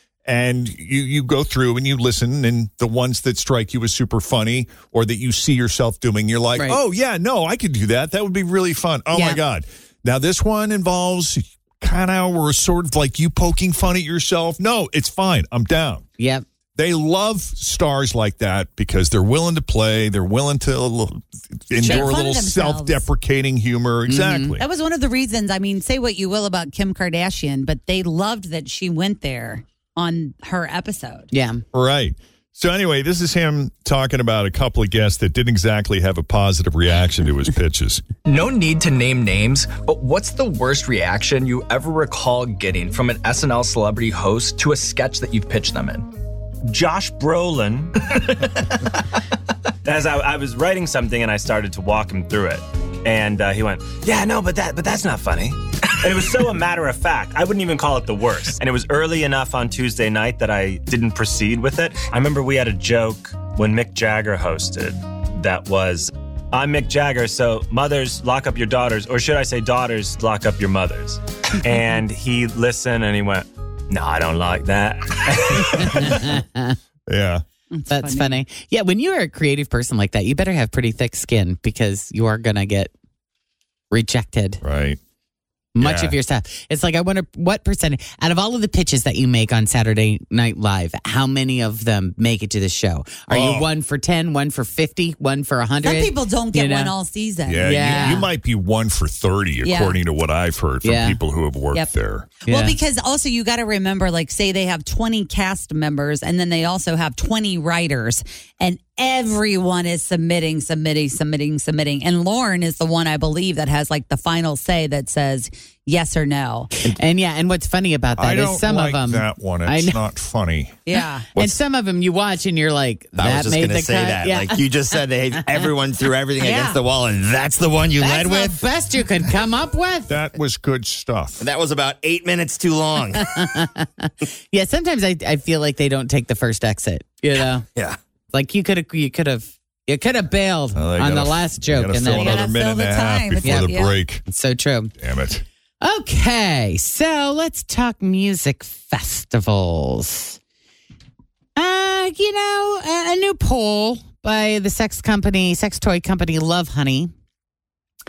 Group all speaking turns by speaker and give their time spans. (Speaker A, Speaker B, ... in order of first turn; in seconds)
Speaker A: 0.3-16.1, 16.8-24.6, 31.7-38.0, 77.1-77.4, 84.6-85.0, 85.8-86.2, 93.3-93.7, 97.5-102.3, 118.2-120.8, 130.1-131.4, 140.8-144.2, 145.0-145.4
Speaker B: 9.1-9.4, 16.2-16.5, 21.8-22.1, 24.1-24.6, 31.3-31.6, 75.8-76.8, 77.9-82.9, 83.9-84.6, 85.8-96.9, 97.6-98.3, 100.8-101.2, 102.5-102.8, 116.8-120.0, 121.3-124.7, 128.0-130.1, 133.2-137.7, 138.3-142.4, 143.4-143.7, 144.2-144.9, 145.8-150.4, 151.6-157.1
Speaker C: 21.8-23.1, 24.6-31.3, 77.7-78.4, 95.8-98.2, 99.6-100.0, 102.5-116.7, 120.9-121.3, 126.4-126.8, 142.1-144.0
Speaker D: 38.2-46.1
Speaker E: 46.7-48.2, 49.8-76.2
Speaker F: 123.2-128.6, 131.4-133.3